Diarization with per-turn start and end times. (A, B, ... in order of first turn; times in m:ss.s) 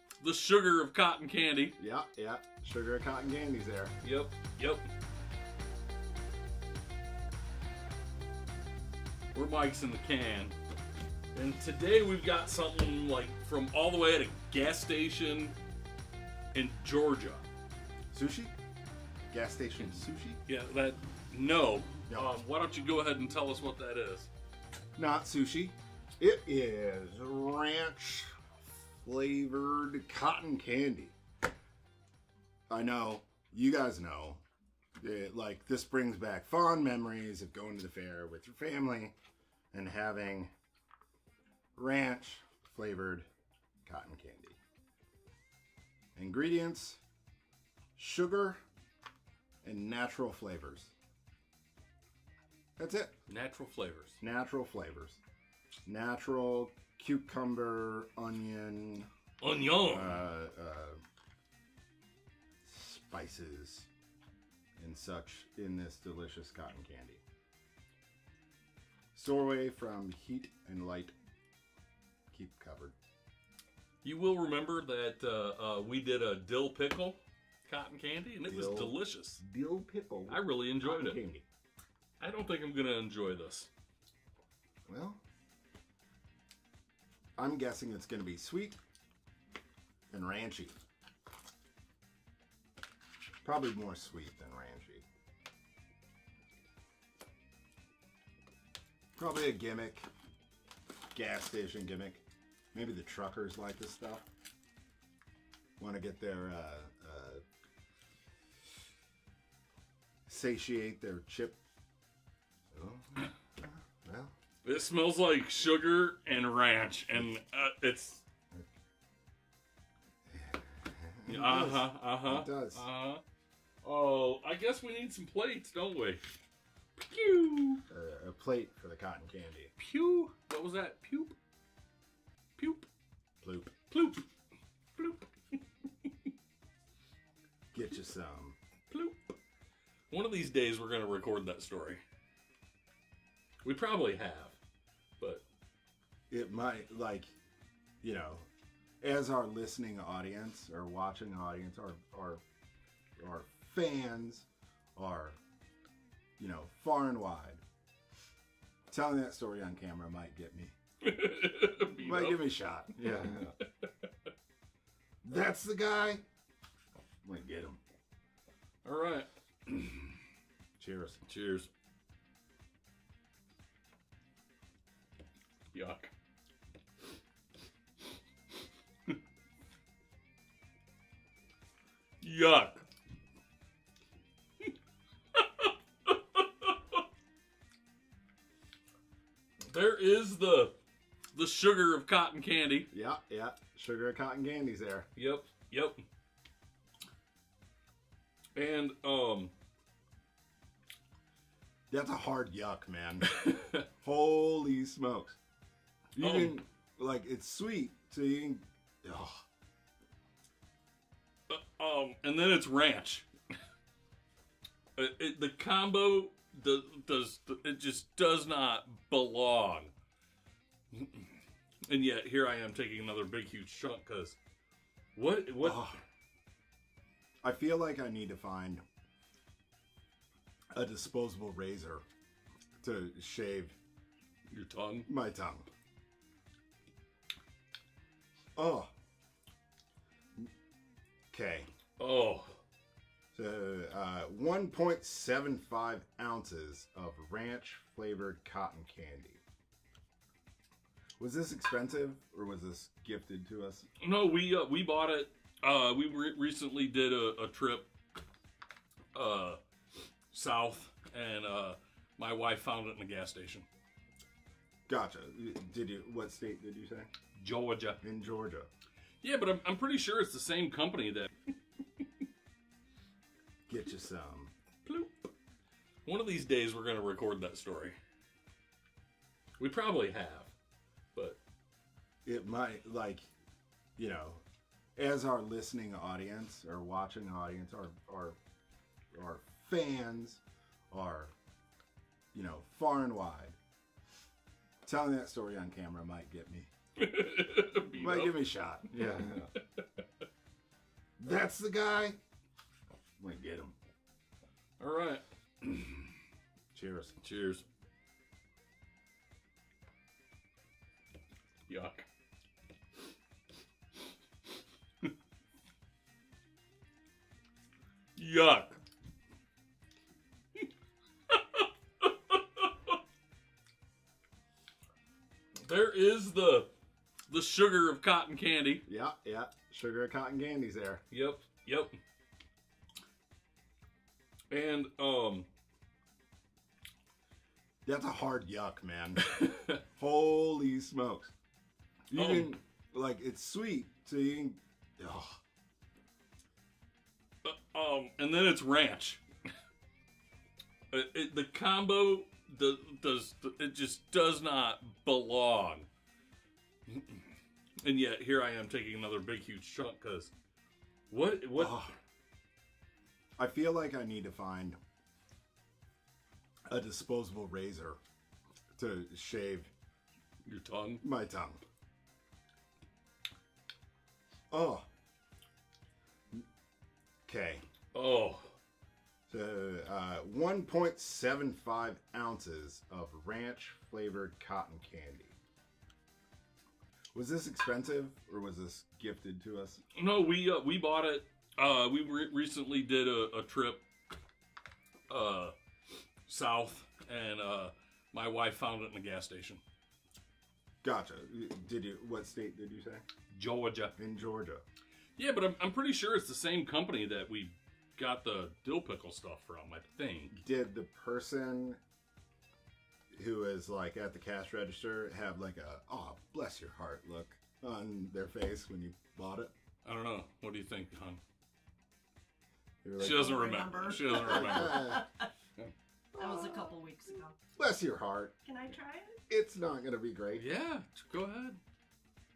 0:00.2-0:01.8 A
0:01.8-0:04.0 B
0:04.0-0:04.8 A
0:09.3-0:10.6 A
0:11.3-0:15.6 A
0:16.5-0:17.5 A
0:18.1-0:18.5 B
0:19.3-0:20.4 B
0:19.8-0:24.3 A
0:22.1-0:22.4 B
0:25.0-0:28.4 B
0:29.0-0:31.2 B
0:32.7-0:34.4 B
0:35.0-0:39.2 B
0:39.7-0:40.5 B
0:41.8-0:43.3 B
0:43.8-0:44.6 B
0:46.2-0:47.0 B
0:48.0-0:48.6 B
0:49.6-0:50.9 B
0:52.8-0:53.2 B
0:53.3-0:54.2 A
0:54.2-0:55.2 B
0:55.9-0:59.1 B
0:59.4-1:00.3 A
0:59.7-1:01.0 B
1:02.6-1:03.9 B
1:04.8-1:07.2 B
1:09.2-1:11.2 B
1:12.3-1:13.0 B
1:14.0-1:19.4 A
1:18.4-1:21.5 B
1:20.3-1:21.2 A
1:22.2-1:23.7 A
1:24.9-1:25.2 B
1:27.4-1:28.8 B
1:30.1-1:30.8 B
1:33.4-1:35.0 B
1:39.2-1:40.1 B
1:41.1-1:42.2 B
1:42.7-1:44.3 B
1:45.8-1:47.4 B
1:50.3-1:51.6 B
1:52.7-1:54.3 B
1:54.6-1:58.2 A
2:00.3-2:02.8 B
2:01.3-2:03.2 A
2:03.8-2:06.2 A
2:07.0-2:07.8 A
2:07.9-2:09.7 B
2:09.8-2:11.4 A
2:12.6-2:12.9 A
2:13.4-2:13.7 B
2:13.9-2:14.2 A
2:15.0-2:15.3 A
2:17.7-2:18.6 B
2:18.9-2:19.3 A
2:20.1-2:22.0 A
2:23.6-2:24.6 A
2:25.2-2:25.4 A
2:26.3-2:27.4 B
2:28.0-2:28.5 B
2:29.0-2:32.4 B
2:33.2-2:35.4 B
2:36.4-2:37.6 B
2:38.9-2:40.8 B
2:41.0-2:42.5 A
2:42.0-2:43.5 B
2:43.0-2:44.1 A
2:45.2-2:46.2 B
2:47.2-2:47.8 B
2:48.8-2:50.1 A
2:50.8-2:51.2 B
2:51.3-2:51.7 A
2:55.7-2:56.1 A
3:02.2-3:02.9 A
3:05.3-3:07.0 A
3:09.6-3:10.8 A
3:11.3-3:12.9 A
3:12.9-3:15.1 B
3:15.2-3:16.0 A
3:18.6-3:19.5 A
3:21.9-3:25.4 B
3:23.3-3:23.8 A
3:26.2-3:29.4 B
3:26.2-3:26.6 A
3:31.5-3:33.3 A
3:35.0-3:39.9 A
3:40.9-3:41.3 A
3:41.9-3:44.4 A
3:45.2-3:45.8 A
3:45.6-3:46.0 B
3:47.4-3:48.8 B
3:50.7-3:52.0 B
3:52.8-3:53.8 B
3:54.5-3:55.1 A
3:55.1-3:55.7 B
3:58.6-3:58.9 B
4:01.3-4:01.7 B
4:02.0-4:02.6 A
4:03.3-4:09.4 B
4:11.2-4:13.9 B
4:14.0-4:17.9 A
4:19.1-4:19.6 A
4:20.3-4:23.7 A
4:24.9-4:27.1 B
4:27.4-4:28.0 A
4:28.0-4:28.7 B
4:29.2-4:31.3 A
4:33.7-4:34.5 B
4:34.8-4:35.3 A
4:36.0-4:38.0 A
4:39.6-4:40.5 A
4:41.1-4:41.4 A
4:42.2-4:43.3 B
4:44.0-4:44.4 B
4:45.0-4:48.4 B
4:49.1-4:51.3 B
4:52.3-4:53.6 B
4:54.8-4:56.7 B
4:57.0-4:58.4 A
4:58.0-4:59.5 B
4:59.0-4:59.8 A
5:01.2-5:02.2 B
5:03.2-5:03.8 B
5:04.8-5:06.0 A
5:06.7-5:07.2 B
5:07.2-5:07.6 A
5:11.7-5:12.1 A
5:18.2-5:18.8 A
5:21.3-5:23.0 A
5:25.6-5:26.7 A
5:27.3-5:28.8 A
5:28.9-5:31.0 B
5:31.1-5:32.0 A
5:34.5-5:35.5 A
5:37.8-5:41.3 B
5:39.3-5:39.7 A
5:42.1-5:45.4 B
5:42.1-5:42.5 A
5:47.4-5:49.2 A
5:50.9-5:55.9 A
5:56.9-5:57.2 A
5:57.8-6:00.3 A
6:01.1-6:01.8 A
6:01.6-6:01.9 B
6:03.4-6:04.8 B
6:06.7-6:08.0 B
6:08.8-6:09.7 B
6:10.4-6:11.0 A
6:11.0-6:11.6 B
6:14.5-6:14.9 B
6:17.3-6:17.6 B
6:17.9-6:18.6 A
6:19.3-6:25.4 B
6:27.1-6:29.8 B
6:30.0-6:33.8 A
6:35.1-6:35.6 A
6:36.3-6:39.6 A
6:40.8-6:43.1 B
6:43.3-6:44.0 A
6:44.0-6:44.6 B
6:45.2-6:50.4 A
6:50.3-6:51.8 B
6:53.1-6:59.5 B
6:59.8-7:01.2 A
7:02.8-7:05.1 B
7:03.0-7:05.0 A
7:03.0-7:05.3 C
7:06.2-7:07.4 C
7:06.2-7:06.7 B
7:07.6-7:08.4 B
7:08.4-7:09.2 C
7:09.3-7:10.5 B
7:10.3-7:11.6 A